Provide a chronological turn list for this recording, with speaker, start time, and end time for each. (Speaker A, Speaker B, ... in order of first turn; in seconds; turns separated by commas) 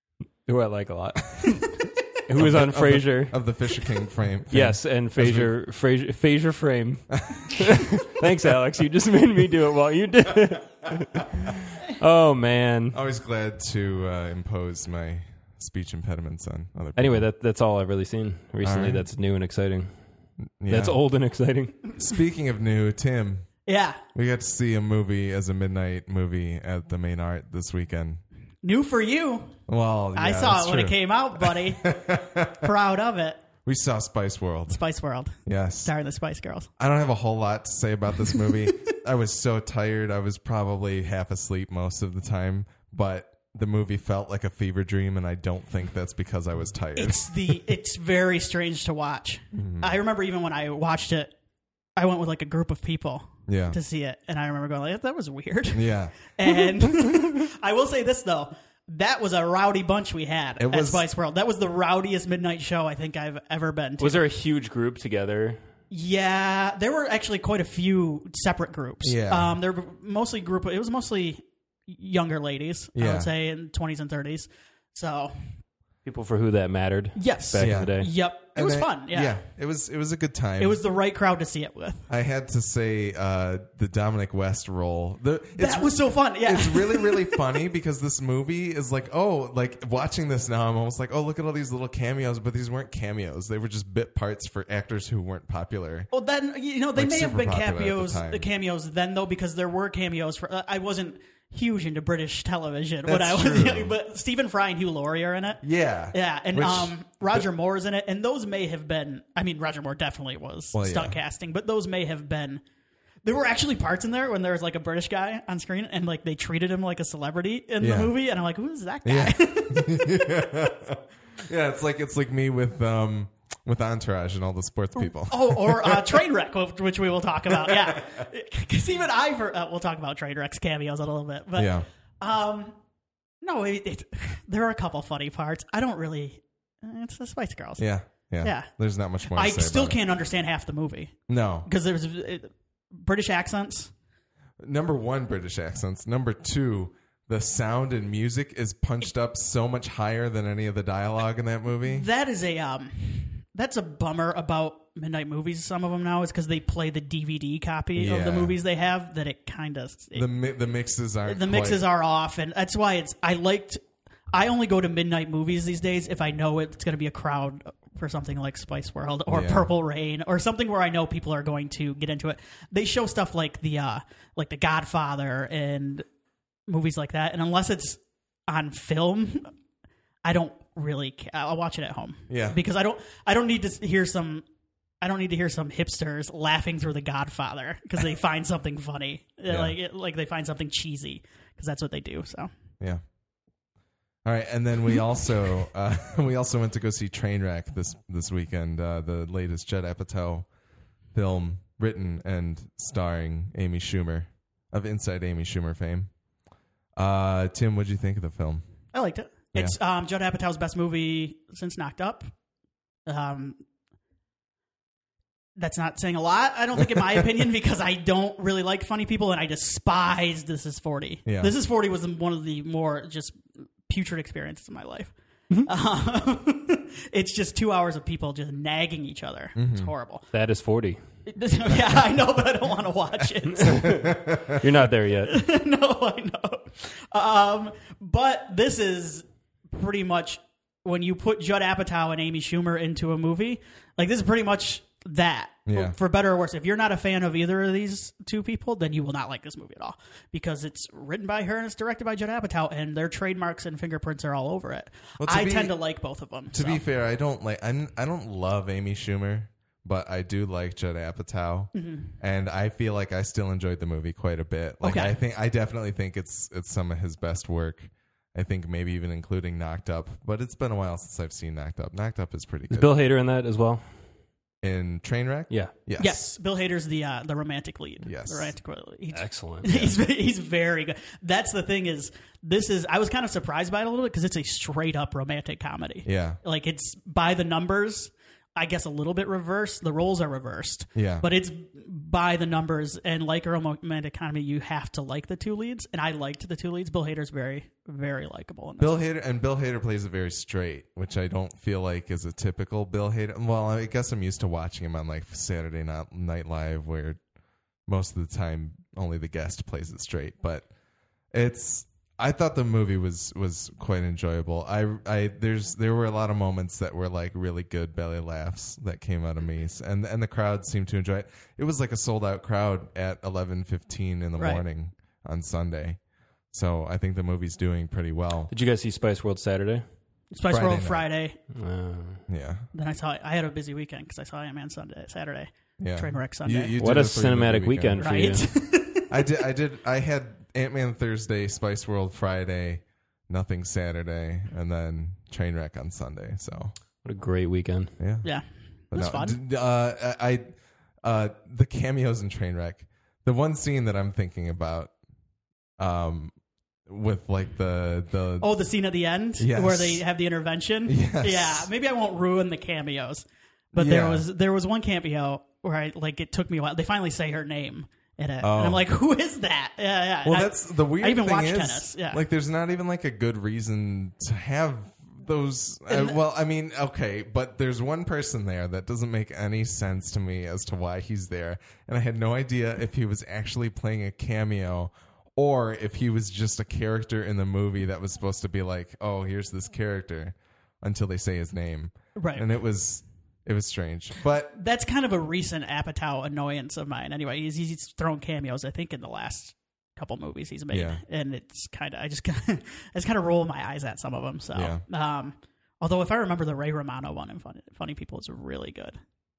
Speaker A: 0.5-3.4, Speaker B: 2.4-5.5, Speaker A: 4.5-13.0, Speaker B: 7.3-7.7, Speaker B: 12.9-17.2, Speaker A: 16.9-19.9, Speaker B: 18.6-19.1, Speaker B: 20.6-21.0, Speaker A: 20.7-21.9, Speaker B: 22.0-23.5, Speaker C: 23.6-24.0, Speaker B: 24.1-28.2, Speaker C: 28.6-29.6, Speaker B: 29.7-32.7, Speaker C: 30.1-33.4, Speaker B: 33.6-34.8, Speaker C: 34.7-36.7, Speaker B: 35.4-35.9, Speaker B: 36.8-47.6, Speaker C: 46.9-51.3, Speaker B: 49.5-50.0, Speaker C: 52.0-64.2, Speaker B: 53.5-53.8, Speaker B: 55.7-56.2, Speaker B: 60.6-61.0, Speaker A: 64.0-65.7, Speaker C: 65.9-75.6, Speaker B: 69.0-69.5, Speaker B: 72.9-73.3, Speaker A: 76.0-78.1, Speaker C: 77.1-79.4, Speaker B: 77.6-80.8, Speaker C: 80.6-82.1, Speaker B: 82.1-96.1, Speaker C: 85.6-87.4, Speaker C: 96.1-112.6, Speaker B: 97.0-98.5, Speaker B: 103.0-103.9, Speaker B: 105.6-107.4, Speaker B: 110.7-111.2, Speaker C: 113.2-120.2, Speaker B: 117.8-118.1, Speaker B: 119.0-126.2, Speaker C: 125.0-132.8, Speaker B: 127.5-128.0, Speaker B: 131.6-131.9, Speaker C: 133.4-138.7, Speaker B: 137.8-140.0, Speaker C: 139.2-143.9, Speaker B: 141.3-141.7, Speaker B: 144.6-152.1, Speaker C: 151.8-160.3, Speaker B: 157.9-158.6, Speaker B: 160.1-161.8, Speaker C: 161.2-163.8, Speaker C: 164.3-176.0, Speaker B: 169.3-169.7, Speaker C: 176.7-179.5, Speaker C: 180.2-184.4, Speaker B: 182.3-182.6, Speaker C: 185.0-192.5, Speaker B: 189.5-189.8, Speaker B: 194.2-200.5, Speaker B: 201.1-206.1, Speaker B: 206.9-208.6, Speaker C: 208.9-212.3, Speaker C: 213.1-213.6, Speaker C: 215.6-230.3, Speaker B: 221.2-221.5, Speaker B: 229.5-229.9, Speaker A: 230.3-231.0, Speaker C: 231.3-234.6, Speaker A: 233.5-235.4, Speaker B: 233.7-234.5, Speaker C: 235.3-256.8, Speaker B: 245.7-245.9, Speaker B: 255.2-255.8, Speaker B: 256.5-272.9, Speaker C: 261.7-262.1, Speaker C: 264.8-265.2, Speaker A: 272.7-274.1, Speaker B: 274.6-276.2, Speaker C: 276.0-299.0, Speaker B: 278.0-278.6, Speaker A: 279.1-279.8, Speaker B: 279.7-279.9, Speaker B: 286.0-286.4, Speaker B: 290.9-291.2, Speaker B: 298.8-307.2, Speaker B: 307.9-310.7, Speaker B: 311.3-328.5, Speaker C: 324.4-324.6, Speaker A: 328.5-329.9, Speaker C: 330.3-331.4, Speaker B: 330.5-331.1, Speaker A: 331.5-332.2, Speaker B: 332.3-332.7, Speaker C: 332.7-336.7, Speaker B: 335.8-338.2, Speaker A: 336.8-338.5, Speaker C: 338.0-339.1, Speaker B: 339.1-346.7, Speaker A: 347.0-348.0, Speaker B: 348.0-348.3, Speaker C: 348.2-349.4, Speaker B: 348.9-354.9, Speaker B: 355.8-356.3, Speaker B: 356.9-358.5, Speaker C: 358.4-372.2, Speaker B: 359.4-360.0, Speaker B: 360.9-361.7, Speaker B: 363.7-364.2, Speaker B: 368.4-368.8, Speaker B: 370.2-394.5, Speaker C: 375.9-376.2, Speaker C: 392.1-392.4, Speaker C: 394.5-409.0, Speaker B: 400.7-401.0, Speaker B: 404.5-404.8